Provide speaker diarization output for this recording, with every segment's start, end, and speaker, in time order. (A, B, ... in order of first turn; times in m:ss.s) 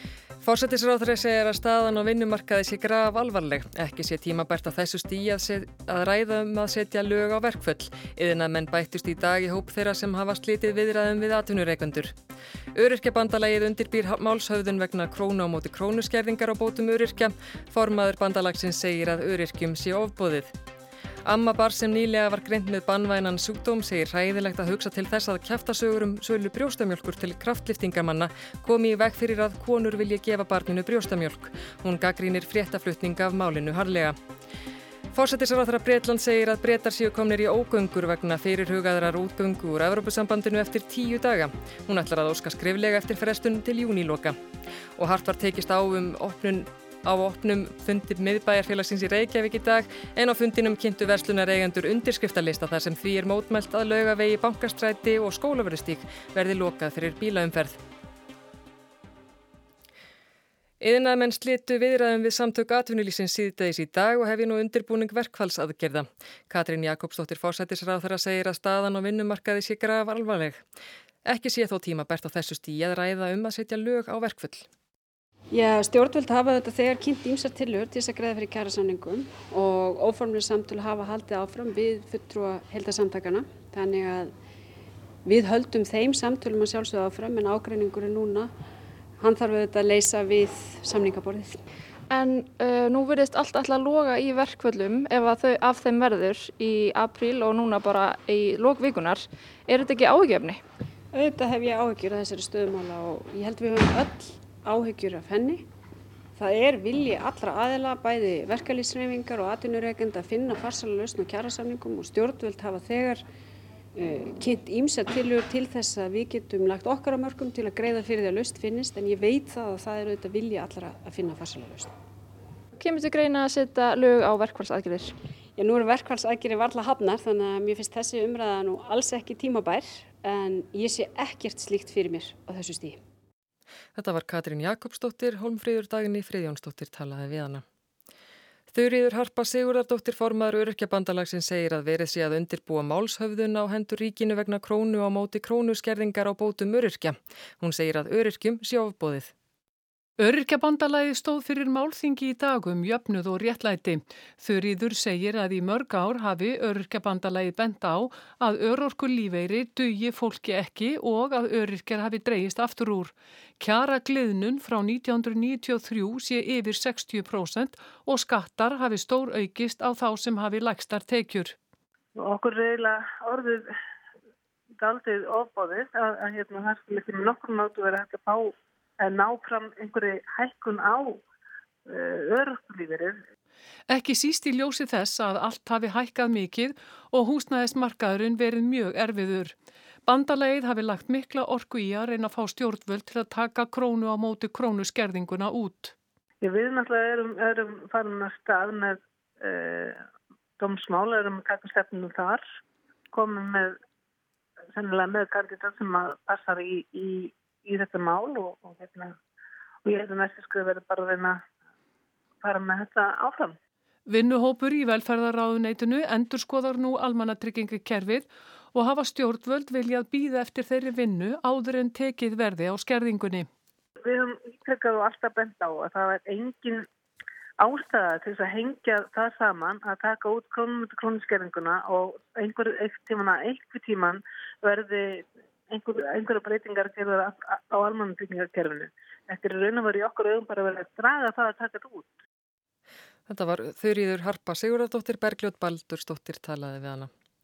0:00.4-0:12.1 A
0:12.7-0:20.6 A
0:21.2-0:34.2 A
0:35.1-0:44.4 A
0:45.0-0:57.8 A
1:00.8-1:10.6 A
1:11.2-1:14.7 A
1:15.5-1:24.3 B
1:25.2-1:28.5 B
1:29.2-1:31.6 B
1:32.1-1:40.6 C
1:41.1-1:45.6 B
1:46.4-1:53.2 B
1:54.0-2:01.9 B
2:02.8-2:05.1 C
2:05.6-2:13.0 B
2:14.0-2:17.6 A
2:18.7-2:29.3 A
2:30.2-2:51.6 D
2:52.2-2:53.7 E
2:54.8-3:01.2 E
3:01.9-3:03.2 E
3:03.9-3:09.5 D
3:10.0-3:15.9 D
3:16.4-3:20.0 E
3:20.6-3:22.4 E
3:23.1-3:23.8 E
3:24.7-3:29.2 E
3:29.8-3:31.4 E
3:32.4-3:33.6 E
3:34.1-3:43.5 D
3:44.0-3:46.8 E
3:47.6-4:02.1 E
4:03.3-4:07.1 A